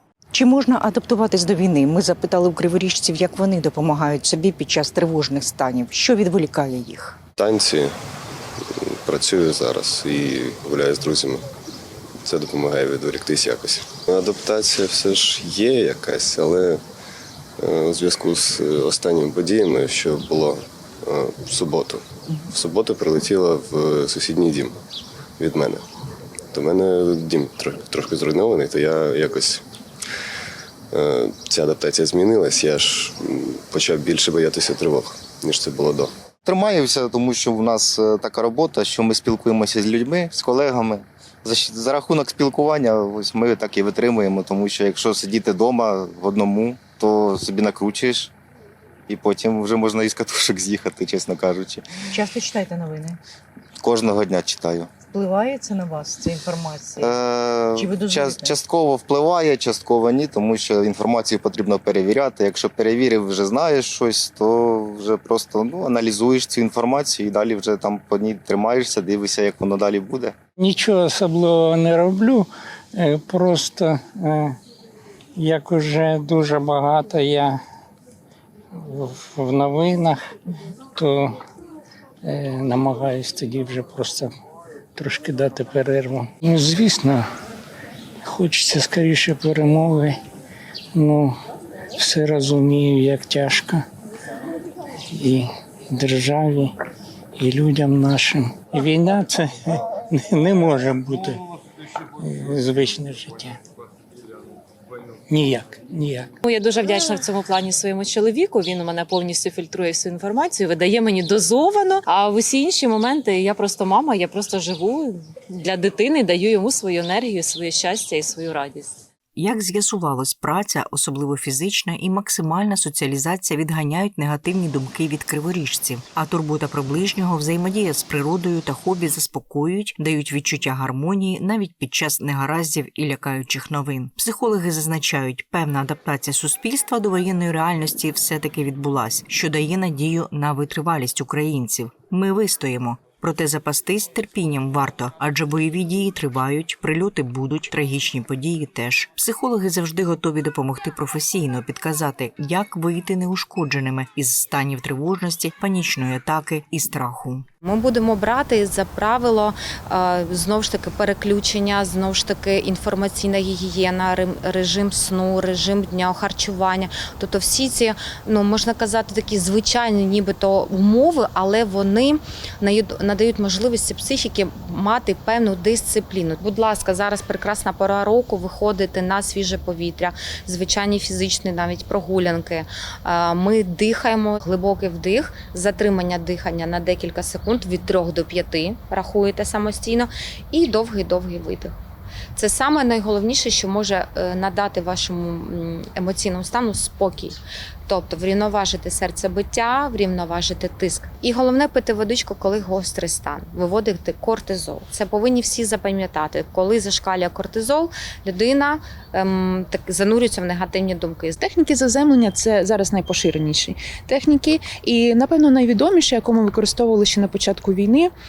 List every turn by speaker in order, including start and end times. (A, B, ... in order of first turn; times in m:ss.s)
0:00.3-0:07.2 A
0:07.4-0:07.9 B
0:08.8-0:11.4 B
0:12.2-0:16.8 B
0:17.6-0:24.7 B
0:25.4-0:25.8 B
0:26.5-0:29.6 B
0:30.9-0:36.1 B
0:36.4-0:48.3 C
0:49.1-0:51.8 C
0:52.1-0:53.2 A
0:53.8-0:54.9 C
0:55.1-0:57.1 A
0:57.0-1:10.3 C
0:57.7-0:58.6 A
1:10.6-1:14.6 D
1:15.4-1:17.6 D
1:18.9-1:20.2 D
1:21.0-1:21.4 D
1:22.2-1:24.3 D
1:25.0-1:27.2 D
1:28.3-1:30.2 D
1:31.0-1:31.3 D
1:32.0-1:33.8 D
1:35.1-1:36.7 D
1:37.4-1:41.4 D
1:42.2-1:43.6 D
1:45.3-1:46.3 D
1:46.4-1:59.0 E
1:59.4-2:37.4 F
2:37.6-3:11.7 G
3:12.4-3:31.4 G
3:31.4-3:38.1 H